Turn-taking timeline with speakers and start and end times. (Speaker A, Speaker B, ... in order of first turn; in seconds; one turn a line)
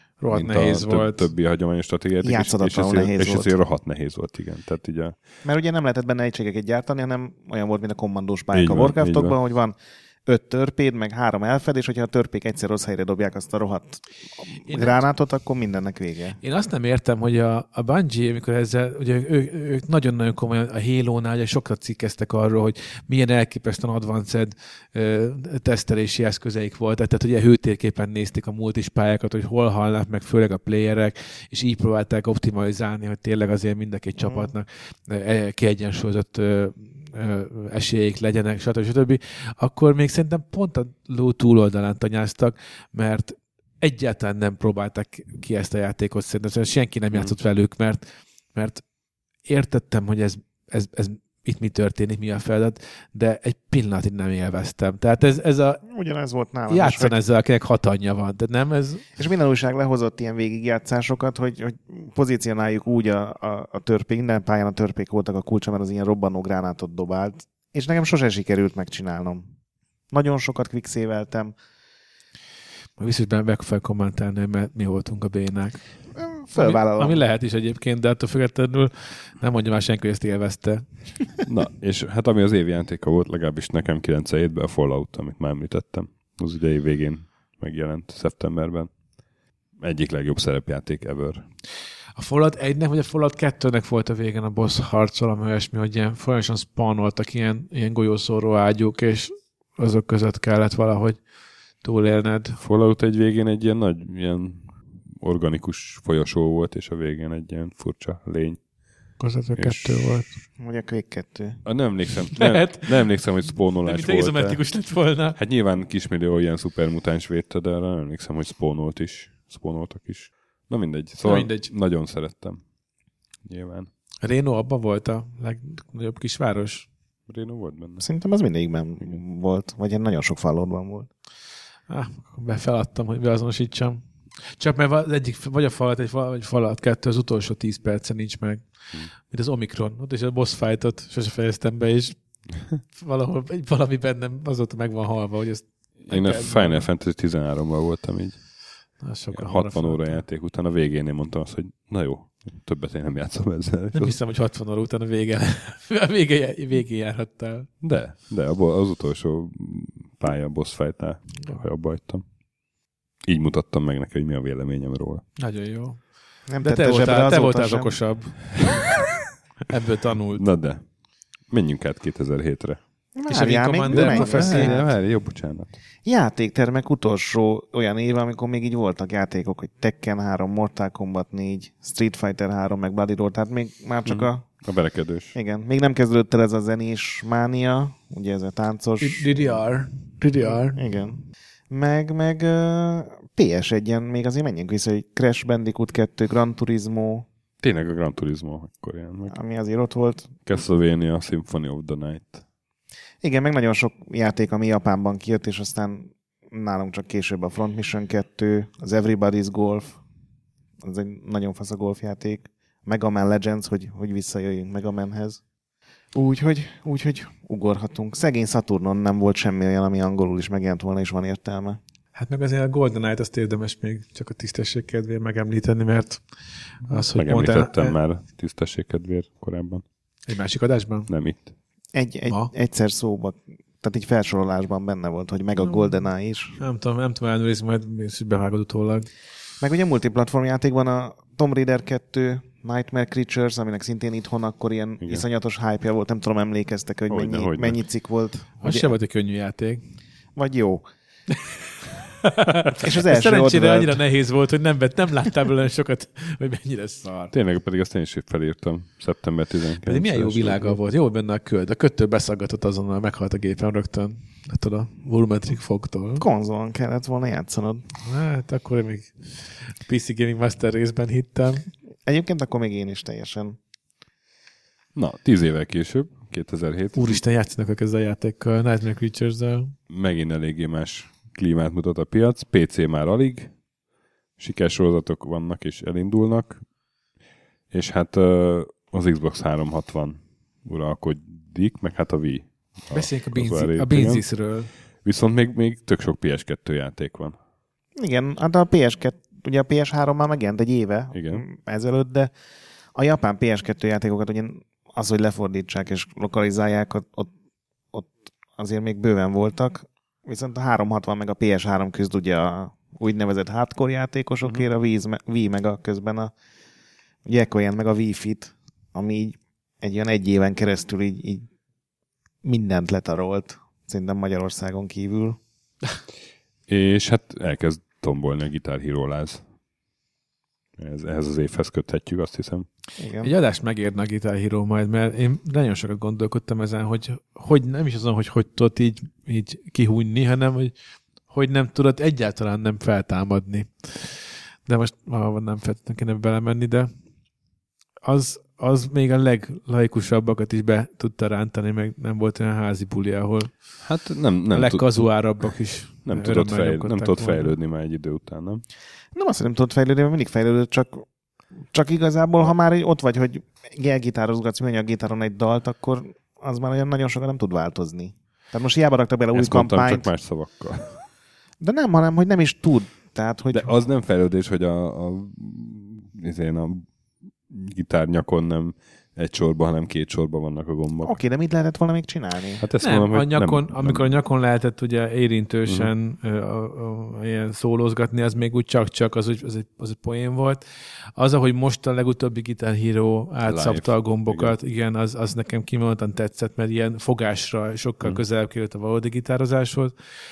Speaker A: 0.2-1.3
Speaker B: 0.3-5.2
Speaker C: 2.2-3.5
Speaker C: 5.4-16.4
Speaker B: 8.5-9.3
Speaker A: 14.7-15.0
Speaker A: 16.4-48.8
Speaker C: 34.2-34.5
Speaker A: 49.5-55.8
Speaker C: 55.9-57.2
Speaker A: 56.7-59.0
Speaker C: 59.2-69.5
Speaker C: 70.1-71.5
Speaker A: 73.0-75.8
Speaker C: 76.2-77.2
Speaker A: 76.5-80.9
Speaker B: 81.5-88.9
Speaker B: 89.8-91.5
Speaker A: 92.2-101.2
Speaker A: 101.8-102.6
Speaker B: 102.6-108.6
Speaker A: 109.2-110.3
Speaker B: 109.5-110.1
Speaker C: 110.6-111.6
Speaker B: 111.7-114.6
Speaker A: 112.4-113.0
Speaker A: 113.8-115.4
Speaker B: 115.4-122.6
Speaker A: 121.2-121.7
Speaker B: 123.5-123.9
Speaker A: 124.2-126.9
Speaker B: 127.3-128.0
Speaker C: 128.0-131.1
Speaker A: 131.9-138.7
Speaker A: 139.3-142.2
Speaker A: 142.9-146.9
Speaker B: 146.0-148.4
Speaker A: 149.0-150.2
Speaker B: 149.3-154.2
Speaker A: 153.9-157.7
Speaker B: 157.8-162.2
Speaker B: 163.2-165.2
Speaker A: 165.4-166.0
Speaker C: 166.5-168.0
Speaker A: 166.6-168.5
Speaker A: 169.7-170.4
Speaker B: 170.3-170.8
Speaker B: 171.5-172.8
Speaker C: 173.2-174.9
Speaker A: 173.3-174.8
Speaker B: 173.9-175.8
Speaker C: 176.1-184.5
Speaker B: 184.1-185.4
Speaker C: 185.3-189.4
Speaker A: 189.0-190.8
Speaker C: 190.4-197.3
Speaker B: 197.6-199.4
Speaker C: 199.3-200.4
Speaker B: 200.5-202.4
Speaker C: 203.2-210.0
Speaker C: 210.8-215.4
Speaker C: 216.1-221.8
Speaker A: 222.2-226.2
Speaker A: 226.8-228.0
Speaker B: 227.1-229.8
Speaker A: 230.3-231.1
Speaker B: 231.1-231.5
Speaker C: 231.9-236.6
Speaker A: 232.3-232.5
Speaker A: 235.6-236.0
Speaker A: 236.6-239.1
Speaker C: 239.6-248.9
Speaker B: 247.1-247.8
Speaker A: 248.6-249.8
Speaker C: 250.4-250.9
Speaker A: 252.2-257.3
Speaker C: 252.8-254.0
Speaker B: 257.3-260.8
Speaker A: 259.9-266.2
Speaker C: 266.2-267.9
Speaker A: 268.0-271.7
Speaker C: 272.1-273.6
Speaker B: 274.9-277.2
Speaker A: 276.9-279.7
Speaker B: 279.9-283.5
Speaker B: 284.4-286.6
Speaker B: 287.7-294.2
Speaker A: 292.9-294.7
Speaker B: 295.0-297.4
Speaker C: 298.0-302.3
Speaker B: 301.1-301.4
Speaker C: 302.9-307.3
Speaker C: 307.9-316.3
Speaker C: 317.3-321.5
Speaker C: 322.4-325.4
Speaker B: 326.7-329.4
Speaker B: 330.8-332.7
Speaker C: 333.0-333.3
Speaker A: 333.2-340.7
Speaker A: 341.3-346.9
Speaker A: 348.0-353.5
Speaker B: 353.8-355.1
Speaker A: 354.5-357.6
Speaker B: 356.1-358.6
Speaker C: 359.1-361.1
Speaker C: 361.7-370.1
Speaker B: 369.3-371.0
Speaker C: 371.6-373.8
Speaker B: 373.5-376.9
Speaker B: 377.5-381.2
Speaker C: 381.0-382.6
Speaker B: 382.6-384.1
Speaker A: 382.8-390.6
Speaker A: 391.2-399.9
Speaker B: 393.5-394.6